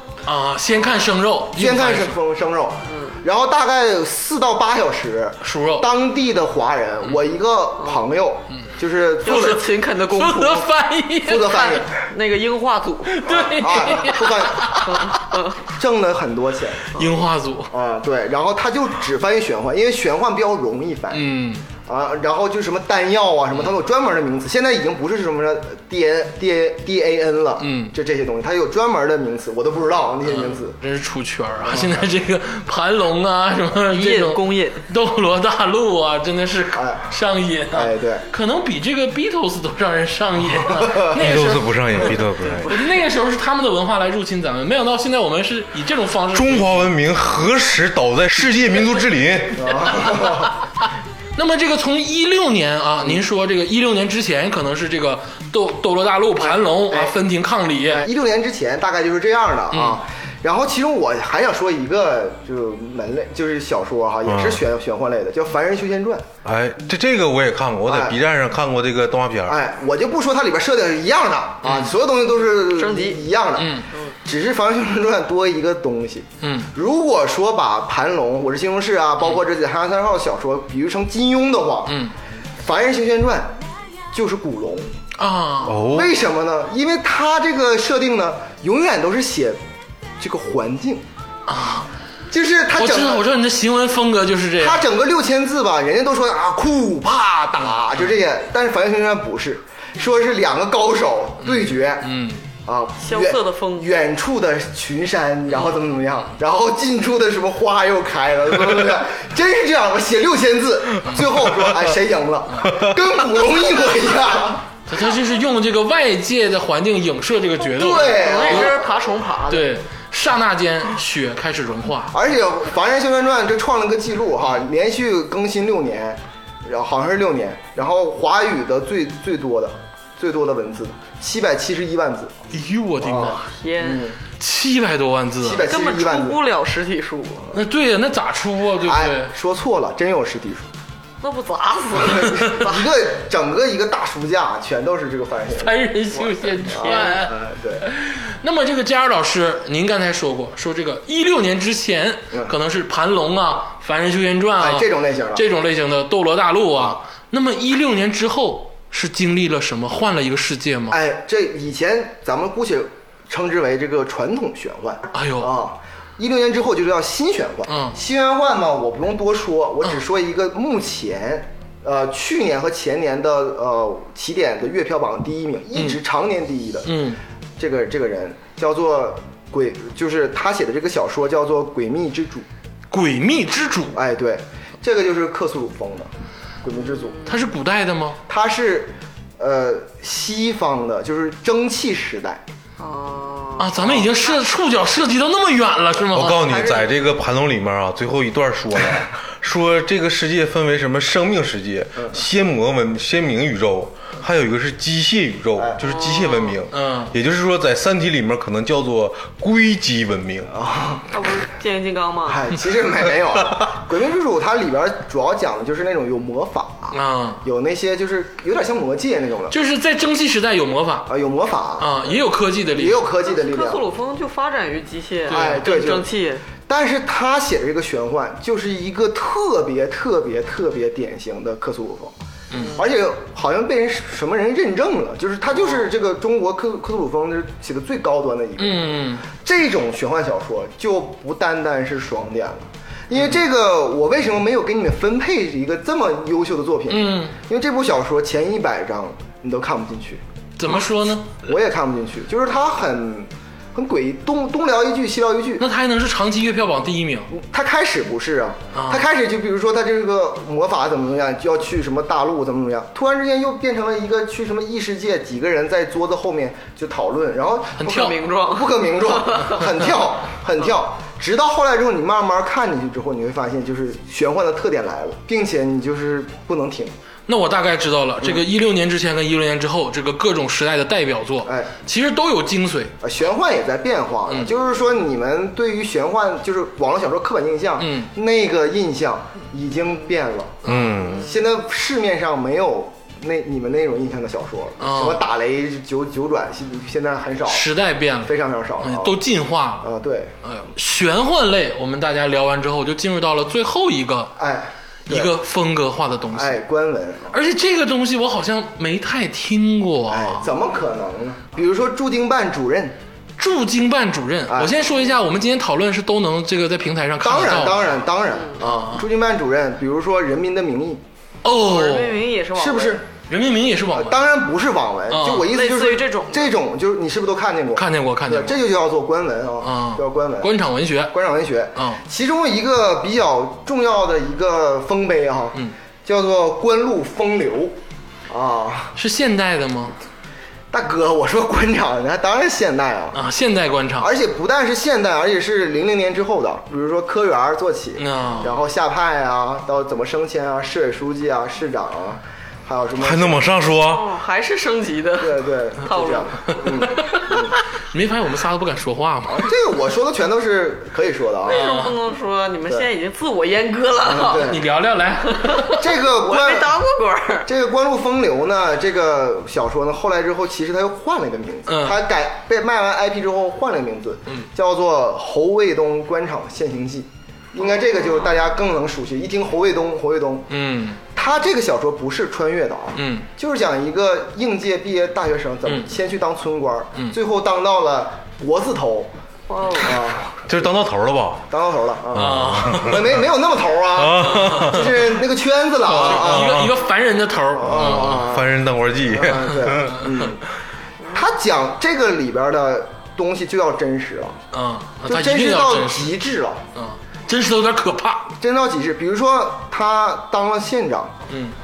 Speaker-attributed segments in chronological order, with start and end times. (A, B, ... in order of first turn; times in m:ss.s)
0:00.3-0:02.2 A
0:01.6-0:09.6 B
0:02.9-0:03.2 C
0:05.4-0:05.9 A
0:07.8-0:08.1 C
0:09.2-0:10.7 C
0:09.2-0:11.7 A
0:11.2-0:11.9 B
0:11.4-0:13.2 C
0:13.1-0:15.3 A
0:13.3-0:14.8 B
0:14.8-0:15.6 C
0:15.6-0:17.1 B
0:16.9-0:17.7 A
0:17.7-0:21.3 B
0:21.1-0:21.7 A
0:21.9-0:30.8 B
0:27.6-0:28.0 A
0:30.3-0:46.9 A
0:31.7-0:32.0 B
0:33.9-0:34.8 C
0:36.8-0:37.1 B
0:37.7-0:38.2 B
0:40.7-0:41.2 B
0:41.1-0:42.8 D
0:46.3-0:50.2 D
0:49.6-0:50.5 B
0:51.4-0:58.1 A
0:56.4-0:57.2 B
0:57.9-1:06.3 B
0:59.7-1:00.0 A
1:04.3-1:04.6 D
1:06.4-1:09.6 D
1:07.9-1:08.2 B
1:09.5-1:22.0 B
1:11.6-1:12.0 A
1:12.7-1:13.3 C
1:13.6-1:13.9 A
1:16.4-1:16.7 A
1:21.9-1:22.1 A
1:22.6-1:23.6 B
1:24.1-1:24.9 B
1:25.2-1:26.0 A
1:25.6-1:26.2 D
1:25.9-1:29.6 B
1:30.2-1:31.0 B
1:31.5-1:31.9 A
1:32.3-1:33.2 B
1:32.8-1:34.8 A
1:34.6-1:42.1 B
1:41.4-1:42.4 A
1:42.6-1:54.7 B
1:43.0-1:43.9 C
1:54.9-1:58.7 A
1:57.8-1:59.0 B
1:58.0-1:59.7 C
1:59.5-2:02.2 A
2:02.1-2:12.4 B
2:12.5-2:13.5 A
2:13.0-2:14.2 B
2:13.5-2:14.1 C
2:14.4-2:15.7 A
2:15.4-2:16.4 B
2:15.7-2:17.5 C
2:17.5-2:19.3 A
2:18.9-2:20.7 B
2:21.2-2:22.9 C
2:22.1-2:25.8 B
2:25.6-2:41.0 A
2:26.5-2:27.2 C
2:26.7-2:27.8 B
2:34.6-2:35.4 B
2:40.9-2:57.0 B
2:45.1-2:45.5 A
2:47.7-2:48.0 A
2:55.7-2:56.0 A
2:56.8-2:57.2 A
2:57.6-3:02.5 B
3:02.9-3:04.0 A
3:04.0-3:06.1 B
3:06.6-3:07.2 B
3:06.9-3:07.3 C
3:07.3-3:08.2 A
3:08.3-3:12.4 B
3:12.8-3:14.1 C
3:13.6-3:16.5 A
3:16.1-3:30.5 D
3:16.4-3:16.9 C
3:25.8-3:26.6 C
3:26.7-3:27.1 A
3:30.5-3:31.1 B
3:31.1-3:32.5 C
3:32.3-3:39.6 B
3:36.9-3:37.4 A
3:39.5-3:41.1 A
3:41.1-3:42.2 B
3:41.8-3:43.1 A
3:42.7-3:43.8 B
3:43.2-3:46.5 C
3:45.3-3:45.7 A
3:45.3-3:46.1 B
3:46.6-3:52.1 B
3:52.5-3:52.8 A
3:52.6-3:52.8 C
3:52.8-4:10.2 B
3:58.6-3:59.3 A
4:06.9-4:07.4 A
4:10.6-4:11.5 A
4:11.4-4:15.6 B
4:15.6-4:17.3 A
4:17.3-4:36.9 B
4:18.7-4:19.1 A
4:27.8-4:28.2 A
4:27.9-4:29.7 C
4:37.3-4:42.9 A
4:41.5-4:41.7 B
4:43.0-4:50.6 B
4:47.8-4:48.1 A
4:50.6-4:51.1 A
4:50.7-4:51.3 D
4:51.2-4:57.7 B
4:54.8-4:55.2 A
4:57.5-4:59.9 A
4:58.2-4:59.2 B
4:59.8-5:00.4 B
5:00.4-5:04.4 A
5:04.4-5:05.3 B
5:05.1-5:06.6 A
5:06.3-5:07.3 B
5:07.3-5:10.5 A
5:10.1-5:13.0 B
5:13.4-5:18.0 A
5:14.5-5:14.8 B
5:17.2-5:21.0 B
5:18.6-5:19.1 A
5:21.4-5:22.2 A
5:21.5-5:23.0 C
5:22.6-5:23.1 B
5:23.3-5:24.3 A
5:23.9-5:30.5 B
5:25.1-5:25.5 A
5:25.4-5:26.6 C
5:27.8-5:28.6 A
5:29.6-5:31.2 A
5:31.1-5:37.8 B
5:31.8-5:32.0 A
5:38.3-5:39.0 B
5:39.0-5:40.0 A
5:40.7-5:43.2 B
5:43.1-5:44.1 A
5:44.0-5:53.5 B
5:48.0-5:48.5 A
5:53.0-5:54.1 D
5:53.7-5:56.8 C
5:55.2-5:57.6 B
5:56.5-5:59.5 A
5:59.3-6:01.7 B
6:01.4-6:04.5 C
6:01.5-6:02.0 A
6:04.1-6:04.6 B
6:04.3-6:05.8 A
6:05.2-6:07.5 C
6:05.6-6:06.8 B
6:07.5-6:20.5 B
6:11.7-6:12.0 A
6:20.5-6:21.0 A
6:21.1-6:29.1 B
6:23.0-6:23.3 A
6:29.5-6:30.0 C
6:29.7-6:30.4 B
6:30.4-6:31.5 D
6:31.5-6:36.7 B
6:32.1-6:33.2 D
6:32.2-6:33.1 A
6:33.9-6:35.1 D
6:34.5-6:34.9 A
6:35.8-6:38.3 A
6:36.0-6:36.8 D
6:37.6-6:40.4 B
6:37.6-6:40.0 D
6:39.8-6:40.2 A
6:41.1-6:44.4 B
6:44.5-6:46.2 A
6:45.1-6:46.6 B
6:46.8-6:48.3 A
6:48.4-6:51.2 B
6:51.3-6:51.6 A